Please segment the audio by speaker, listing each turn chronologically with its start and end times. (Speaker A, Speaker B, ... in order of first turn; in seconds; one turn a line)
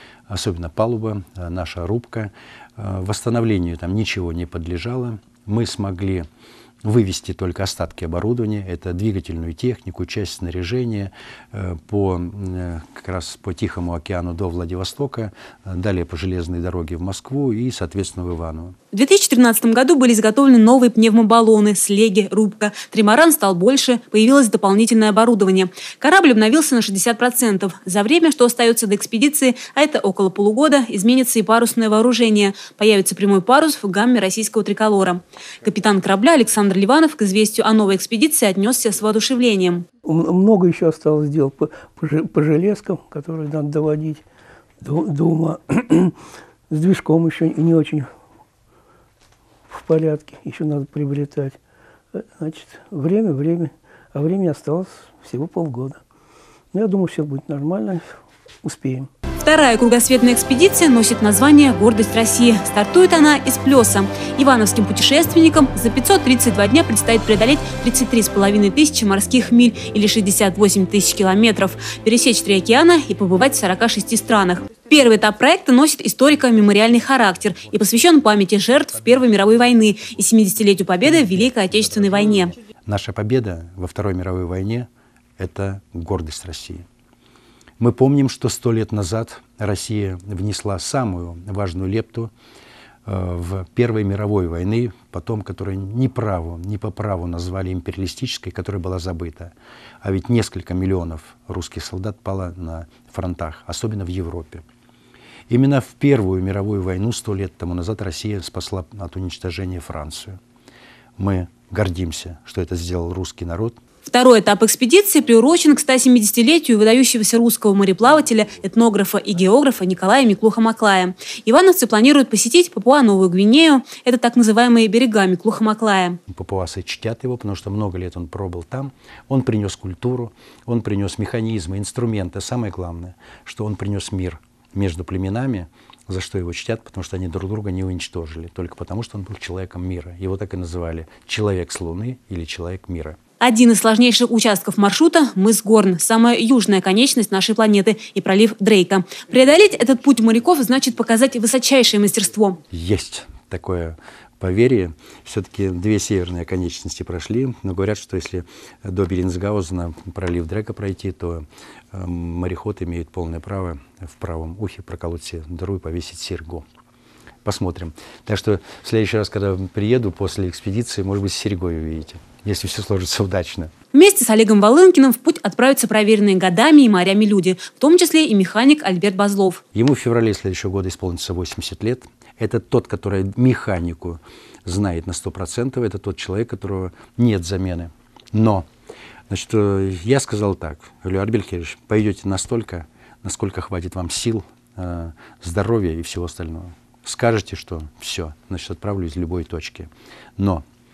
Speaker A: 0.3-6.2
Speaker A: 6.8-18.7
Speaker B: 18.9-39.8
Speaker C: 40.0-44.2
Speaker C: 44.8-46.1
Speaker C: 46.7-48.1
Speaker C: 49.7-51.6
Speaker C: 52.1-56.0
Speaker C: 56.7-59.1
Speaker B: 59.4-82.5
Speaker A: 76.4-84.9
Speaker A: 85.4-86.8
Speaker A: 87.8-92.3
Speaker A: 93.0-104.6
Speaker A: 105.5-110.4
Speaker A: 111.2-113.8
Speaker B: 114.0-126.2
Speaker A: 126.3-143.2
Speaker B: 143.4-152.6
Speaker A: 152.7-166.6
Speaker A: 167.4-173.7
Speaker B: 173.9-179.6
Speaker A: 179.7-188.6
Speaker A: 189.3-200.6